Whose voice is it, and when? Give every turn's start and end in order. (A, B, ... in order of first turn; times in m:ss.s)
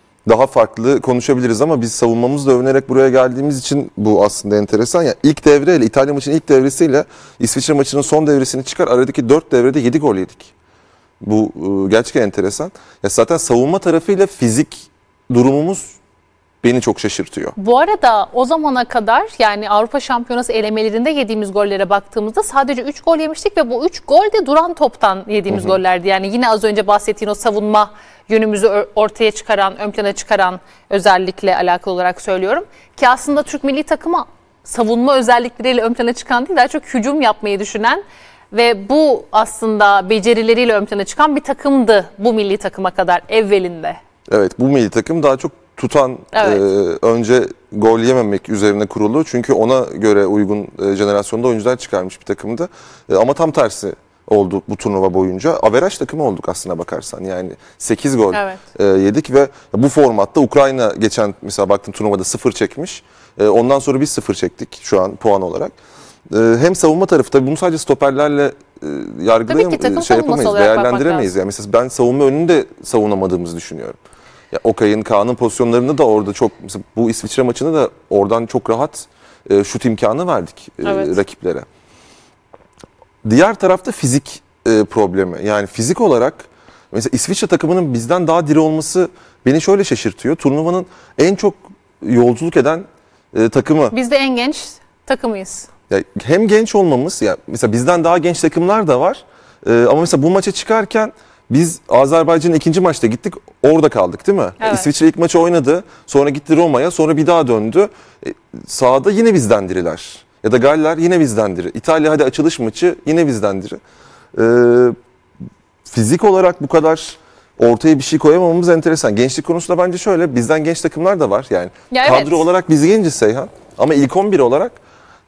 0:00.2-0:10.5 A
0:11.2-0:16.0 A
0:16.6-0:17.6 A
0:17.6-0:44.0 B
0:25.5-0:25.8 A
0:44.3-1:05.7 A
0:46.3-0:46.6 B
0:58.3-0:58.6 B
1:06.3-1:14.0 A
1:09.5-1:11.3 B
1:14.5-1:21.7 A
1:20.8-1:21.2 B
1:23.2-1:34.0 A
1:33.9-1:35.7 B
1:35.9-1:53.8 A
1:44.6-1:44.9 B
1:54.3-1:55.0 A
1:55.8-2:04.8 A
2:01.9-2:02.4 B